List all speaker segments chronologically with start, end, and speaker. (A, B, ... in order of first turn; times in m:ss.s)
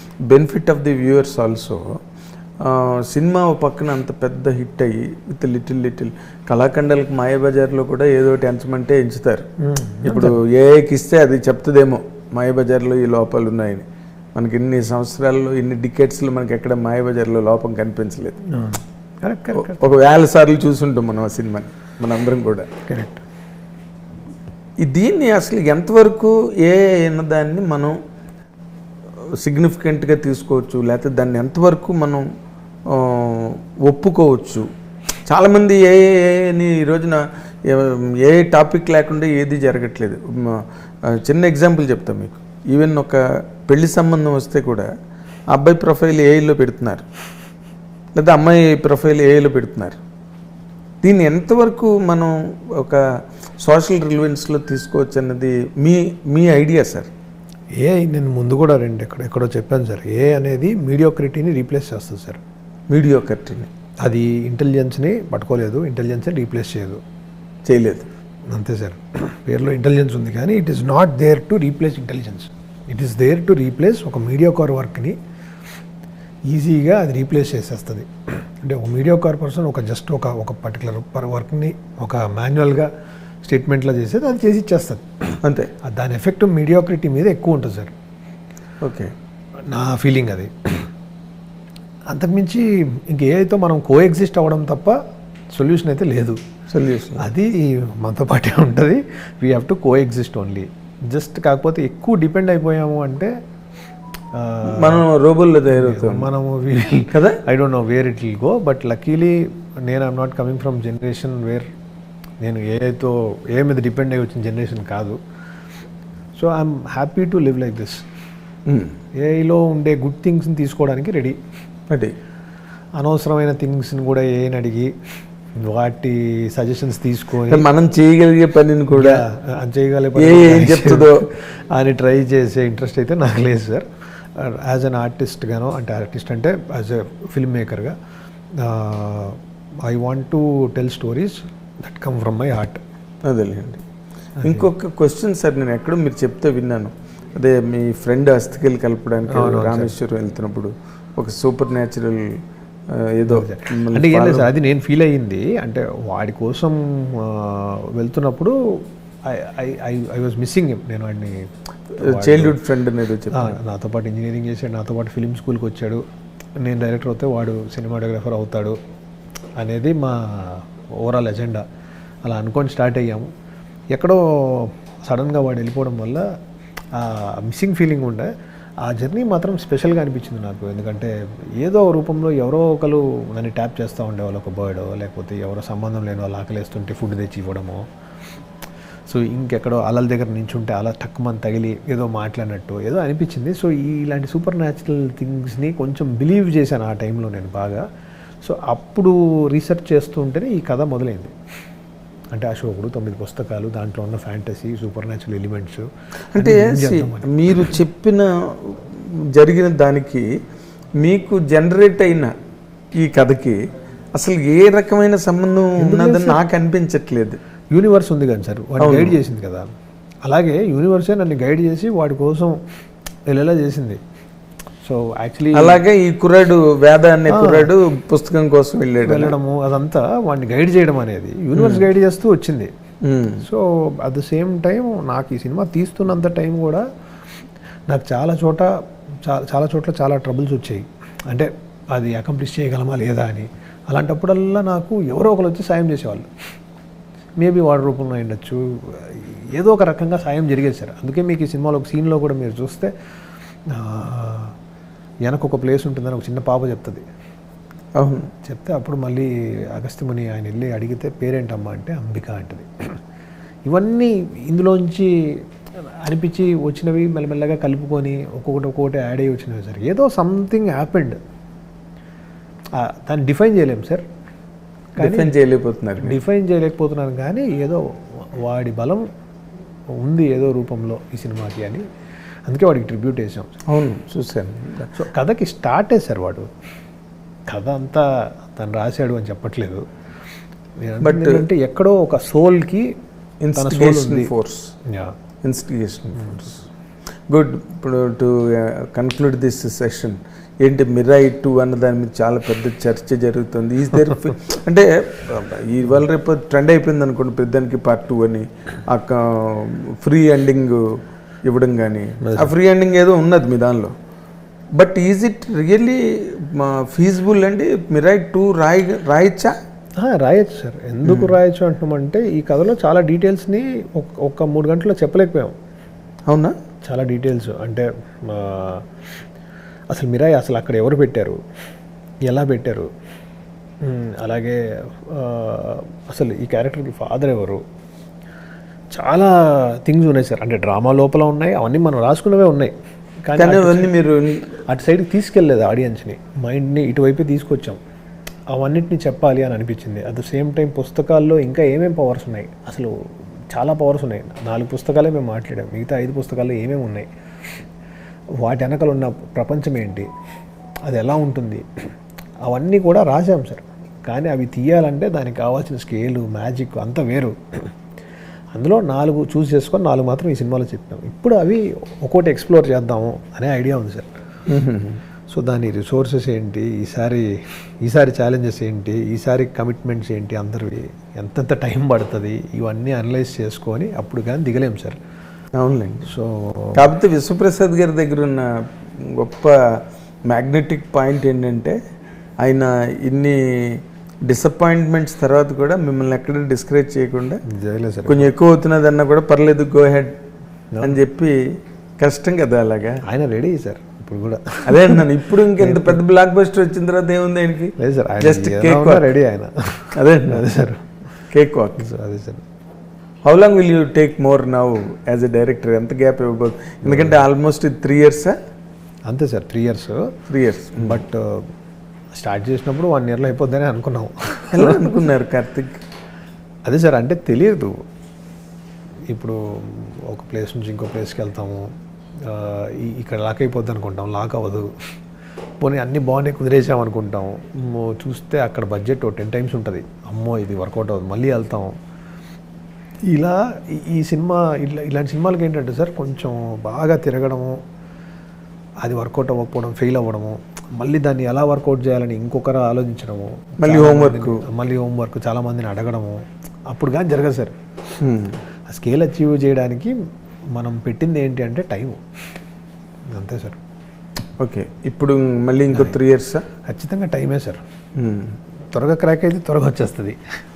0:00.3-0:02.0 A
0:02.6-0:09.4 A
0:09.6-0:10.4 B
0:10.0-0:13.8 A
0:14.4-0:18.3 A
0:18.5-0:19.8 B
0:19.5-0:22.7 A
0:22.9-0:23.2 B
0:24.8-0:27.9 A
0:29.4-0:32.2 A
0:32.9-0:34.6 A
0:35.3-0:40.6 A
0:41.1-0:44.9 A
0:45.5-0:47.0 A
0:48.1-0:50.0 A
0:51.0-0:53.0 A
0:53.6-0:57.1 A
0:57.8-1:02.4 B
1:02.9-1:03.7 A
1:04.0-1:07.0 B
1:07.6-1:08.1 A
1:08.5-1:15.2 B
1:16.5-1:22.9 B
1:23.4-1:25.3 B
1:25.4-1:25.7 A
1:25.9-1:27.9 B
1:28.8-1:29.1 A
1:29.7-1:30.9 B
1:32.1-1:35.0 B
1:35.5-1:36.4 B
1:36.7-1:37.2 A
1:37.2-1:43.3 B
1:44.3-1:45.0 B
1:44.7-1:46.3 A
1:45.7-1:51.6 B
1:52.4-1:55.2 B
1:56.3-1:58.0 B
1:58.7-1:58.9 A
1:59.2-2:01.4 B
2:01.9-2:02.1 A
2:03.0-2:04.9 B
2:05.6-2:07.6 B
2:07.5-2:09.2 A
2:08.9-2:13.8 B
2:10.2-2:11.2 A
2:14.4-2:17.9 B
2:18.6-2:22.8 B
2:23.2-2:23.8 A
2:24.4-2:24.7 B
2:24.4-2:32.2 A
2:29.3-2:29.9 B
2:33.0-2:34.5 A
2:33.3-2:38.5 B
2:39.2-2:42.6 B
2:42.0-2:43.5 A
2:43.4-2:46.0 B
2:46.6-2:48.8 B
2:49.6-2:51.6 B
2:52.2-2:53.3 B
2:53.9-2:56.2 B
2:56.9-2:58.3 B
2:58.8-3:07.8 B
3:09.1-3:17.8 B
3:18.4-3:21.3 B
3:22.3-3:25.9 B
3:26.3-3:30.2 A
3:26.4-3:27.7 B
3:31.0-3:32.3 A
3:33.0-3:33.6 A
3:34.1-3:37.4 A
3:35.8-3:36.4 B
3:37.7-3:39.6 B
3:38.8-3:39.2 A
3:40.2-3:42.6 B
3:43.3-3:44.0 B
3:44.8-3:45.8 B
3:45.5-3:49.3 A
3:47.3-3:47.7 B
3:49.0-3:52.7 B
3:51.5-3:51.8 A
3:53.0-3:53.4 A
3:53.4-3:56.8 B
3:57.9-3:58.7 B
3:59.2-4:06.3 B
4:07.4-4:12.9 B
4:13.7-4:14.5 B
4:15.2-4:17.0 B
4:18.0-4:18.3 A
4:18.4-4:23.0 B
4:23.6-4:31.2 B
4:32.8-4:34.0 B
4:35.0-4:35.3 B
4:35.0-4:36.2 A
4:36.0-4:39.0 B
4:40.0-4:41.8 B
4:42.4-4:43.5 B
4:43.7-4:44.9 A
4:45.0-4:46.5 B
4:47.5-4:49.8 B
4:50.8-4:52.9 B
4:51.0-4:51.5 A
4:53.4-4:54.7 A
4:53.5-4:54.3 B
4:55.4-4:56.6 A
4:57.3-5:10.8 A
5:11.4-5:13.9 A
5:12.2-5:12.5 B
5:14.7-5:19.5 A
5:20.0-5:25.5 B
5:21.0-5:21.3 A
5:26.3-5:26.5 A
5:26.8-5:28.9 B
5:29.9-5:31.4 B
5:32.3-5:32.9 B
5:33.8-5:37.6 B
5:38.9-5:43.9 B
5:43.4-5:44.5 A
5:44.7-5:47.8 B
5:48.5-5:52.9 B
5:53.5-5:57.1 B
5:58.4-6:00.1 B
6:00.9-6:01.6 B
6:02.4-6:07.7 B
6:08.5-6:14.1 B
6:14.5-6:15.0 A
6:15.3-6:17.3 B
6:17.8-6:25.0 B
6:25.5-6:26.1 A
6:26.1-6:26.9 B
6:26.8-6:31.8 A
6:32.4-6:37.4 A
6:37.5-6:38.3 B
6:38.0-6:40.1 A
6:40.8-6:41.3 A
6:42.0-6:43.0 A
6:43.1-6:45.0 B
6:44.7-6:49.1 A
6:45.6-6:46.0 B
6:47.8-6:51.2 B
6:49.9-6:50.4 A
6:51.3-6:51.8 A
6:51.8-6:52.4 B
6:53.2-6:58.4 A
6:56.8-6:57.2 B
6:59.1-7:00.1 B
7:00.3-7:01.0 A
7:00.8-7:01.5 B
7:02.1-7:05.0 B
7:04.5-7:05.8 A
7:06.6-7:07.7 B
7:09.1-7:11.7 B
7:12.3-7:14.7 B
7:15.6-7:21.7 B
7:23.0-7:27.6 B
7:28.8-7:37.5 B
7:33.6-7:34.4 A
7:38.0-7:38.4 A
7:38.7-7:39.9 B
7:40.6-7:42.0 B
7:43.1-7:43.6 B
7:44.4-7:46.4 A
7:45.7-7:46.0 B
7:46.6-7:47.6 B
7:48.0-7:48.4 A
7:48.7-7:50.2 B